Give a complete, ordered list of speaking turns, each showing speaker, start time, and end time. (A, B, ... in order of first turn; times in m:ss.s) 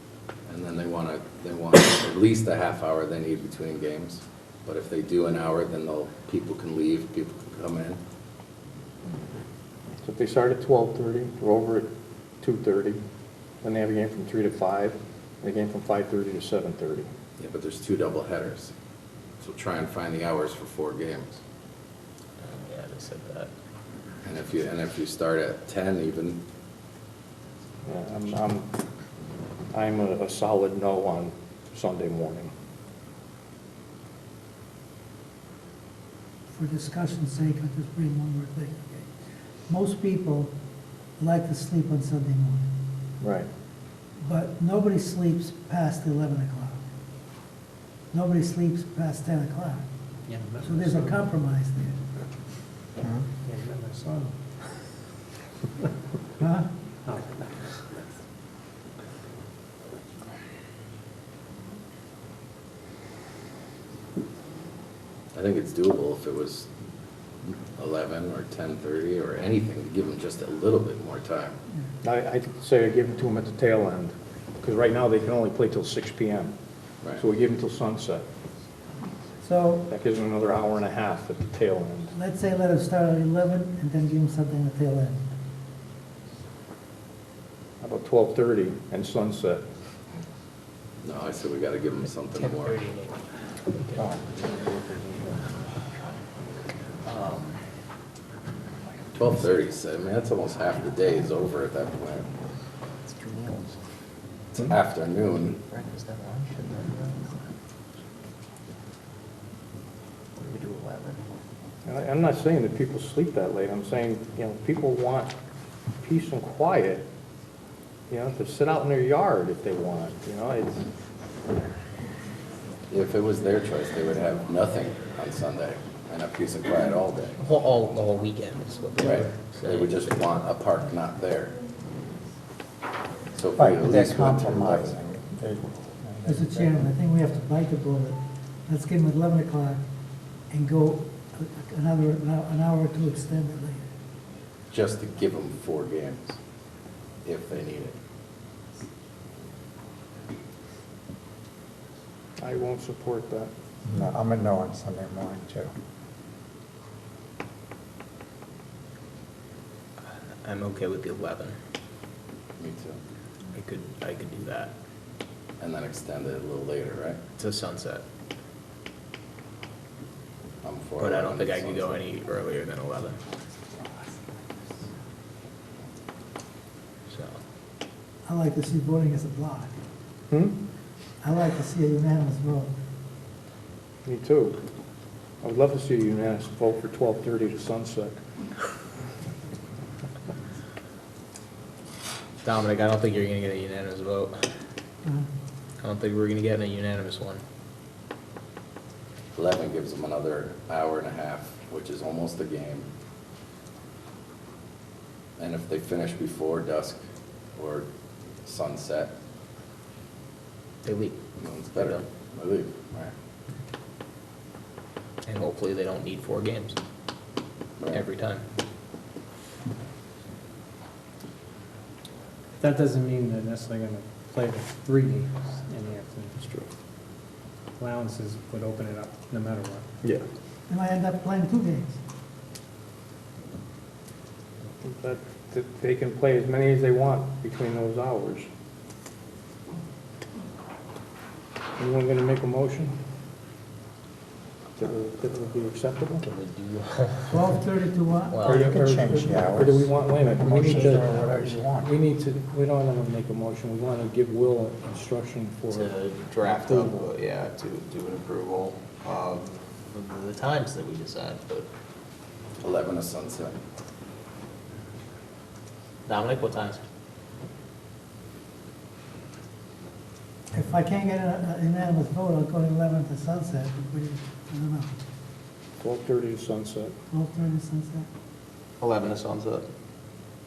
0:00.5-0:08.0 A
0:10.0-0:11.9 B
0:12.4-0:13.0 B
0:13.6-0:17.1 B
0:17.4-0:18.7 A
0:19.4-0:21.4 A
0:22.4-0:23.5 C
0:24.2-0:26.4 A
0:27.8-0:28.7 B
0:29.7-0:32.5 B
0:36.5-0:39.1 D
0:39.7-0:40.5 D
0:41.2-0:42.7 D
0:43.2-0:43.5 B
0:44.2-0:46.8 D
0:48.1-0:49.8 D
0:50.3-0:51.3 E
0:50.6-0:52.0 D
0:53.4-0:54.3 E
0:56.4-0:56.7 D
0:57.1-0:57.4 E
1:05.3-1:06.7 A
1:07.7-1:11.6 A
1:12.0-1:16.5 B
1:17.2-1:18.2 B
1:19.4-1:19.9 D
1:19.9-1:22.1 B
1:22.1-1:25.2 D
1:27.8-1:29.7 B
1:31.0-1:32.8 A
1:32.5-1:33.2 C
1:33.8-1:34.1 C
1:34.0-1:34.2 F
1:35.0-1:35.3 C
1:37.0-1:37.6 C
1:39.2-1:42.3 A
1:43.0-1:43.7 C
1:44.5-1:45.6 A
1:45.6-1:47.4 C
1:50.4-1:51.2 C
1:51.8-1:55.3 B
1:56.0-1:57.0 B
1:58.1-2:00.8 B
2:02.9-2:08.1 A
2:07.4-2:09.9 C
2:09.0-2:11.6 A
2:13.3-2:15.0 A
2:13.6-2:16.7 F
2:16.2-2:19.8 D
2:20.5-2:23.8 D
2:24.7-2:26.4 A
2:27.2-2:28.0 A
2:32.4-2:33.5 B
2:33.8-2:35.7 F
2:40.4-2:41.6 C
2:42.6-2:43.0 A
2:43.5-2:44.7 C
2:45.6-2:47.2 A
2:47.4-2:48.0 C
2:50.6-2:52.1 A
2:51.0-2:53.2 C
2:57.1-2:57.4 C
2:58.2-2:59.7 D
3:00.3-3:00.6 B
3:01.2-3:02.7 D
3:04.0-3:04.6 B
3:05.4-3:08.2 B
3:12.4-3:14.4 C
3:15.8-3:17.4 C
3:19.3-3:22.9 A
3:25.4-3:27.0 A
3:27.6-3:27.9 A
3:28.4-3:29.1 A
3:30.8-3:31.2 C
3:31.4-3:33.1 A
3:31.8-3:32.0 C
3:35.2-3:36.8 C
3:37.8-3:38.0 A
3:37.9-3:38.4 C
3:42.6-3:46.4 E
3:46.4-3:46.7 B
3:47.8-3:49.9 E
3:50.7-3:52.0 D
3:54.8-3:58.5 B
4:01.8-4:02.9 B
4:04.8-4:06.2 B
4:06.2-4:07.6 C
4:07.3-4:09.4 D
4:08.3-4:08.7 C
4:08.3-4:11.2 B
4:08.7-4:11.9 F
4:10.6-4:11.5 C
4:11.8-4:17.1 B
4:15.7-4:21.7 C
4:22.6-4:23.6 A
4:26.0-4:26.8 C
4:30.5-4:34.9 D
4:35.8-4:36.9 B
4:37.1-4:38.1 D
4:38.8-4:39.6 C